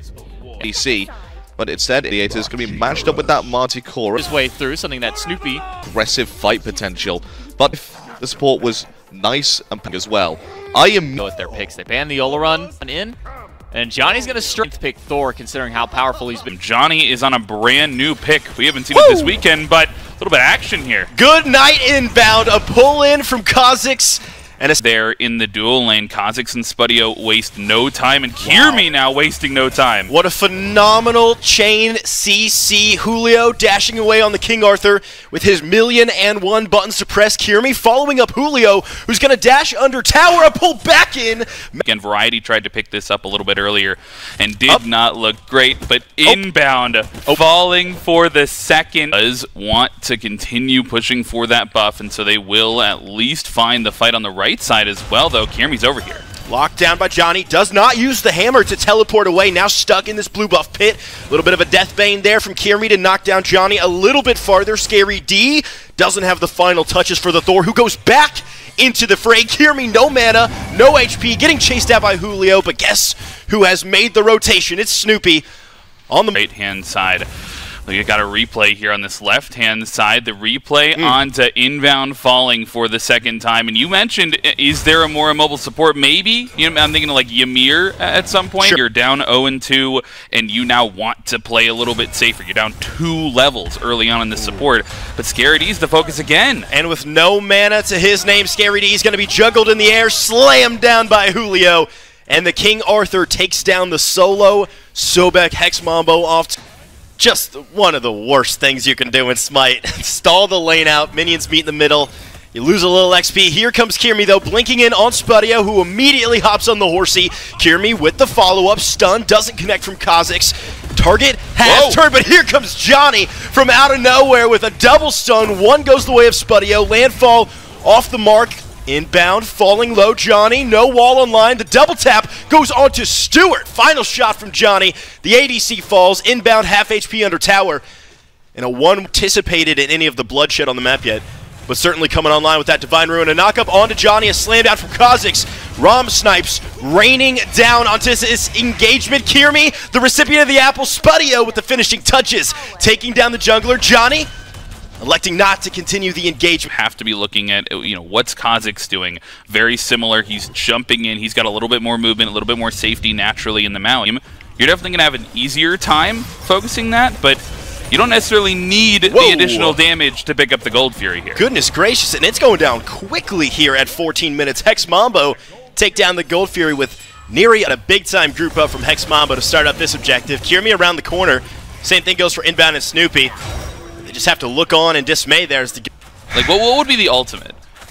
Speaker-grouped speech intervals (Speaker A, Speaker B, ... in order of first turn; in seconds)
Speaker A: 0.6-4.3, 5.8-11.2
Speaker B: 4.2-5.6, 11.2-13.2, 13.7-16.5
Speaker C: 16.5-21.1, 24.8-30.1, 41.8-56.2, 76.3-77.3, 77.8-96.7, 121.6-122.0, 156.7-171.4, 186.3-187.6
Speaker D: 18.9-19.3, 21.1-24.8, 28.4-28.9, 30.1-41.8, 56.5-75.4, 76.1-76.4, 94.4-94.6, 96.7-106.6, 107.2-137.8, 138.5-154.3, 155.0-156.7, 169.1-169.8, 171.3-183.3, 184.0-185.9